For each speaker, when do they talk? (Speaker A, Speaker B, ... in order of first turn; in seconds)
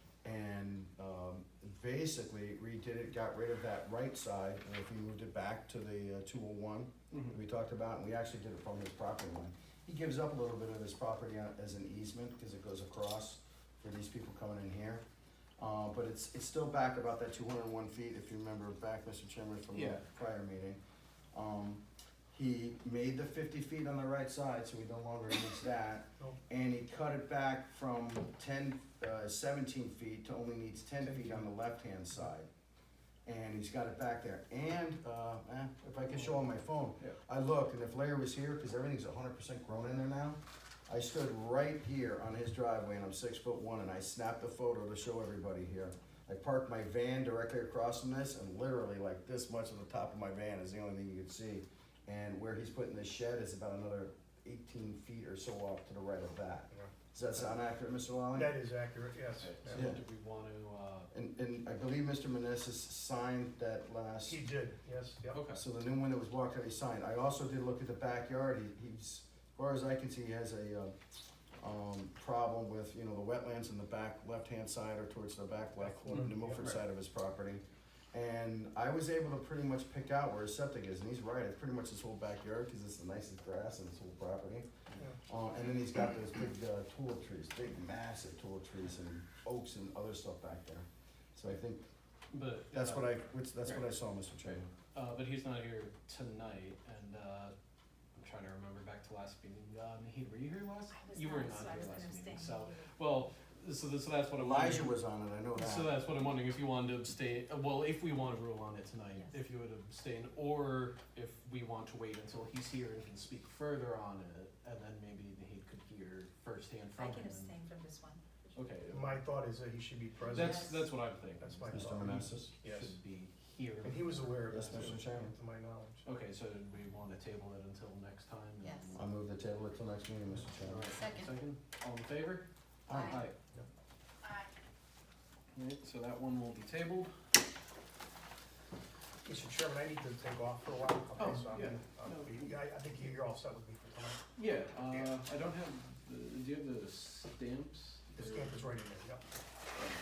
Speaker A: 0.2-15.0, 15.6-20.8, 21.3-32.5, 33.3-58.6, 59.7-60.0, 61.1-64.4, 65.5-70.9, 71.6-84.7, 85.3-91.8, 92.7-94.7, 104.4-106.0, 121.7-122.5, 124.5-125.3, 128.9-130.9, 132.9-133.2
Speaker B: 7.1-7.4, 19.7-20.0, 59.4-61.1, 65.3-65.6, 76.1-76.8, 92.3-93.8, 94.4-97.5, 98.2-104.9, 105.5-117.5, 118.5-119.2, 120.2-125.1, 126.0-129.0, 130.5-133.3, 135.6-137.1, 141.2-143.1, 144.3-148.7
Speaker C: 31.0-31.5, 58.3-59.9, 64.2-65.5, 75.8-76.7, 118.9-120.8, 121.4-123.0, 123.8-126.0, 139.2-144.2, 144.8-145.1, 148.1-149.3
Speaker D: 100.9-102.9, 109.1-109.4, 117.0-118.2, 120.4-120.6, 128.6-128.9, 131.0-131.3, 132.9-133.2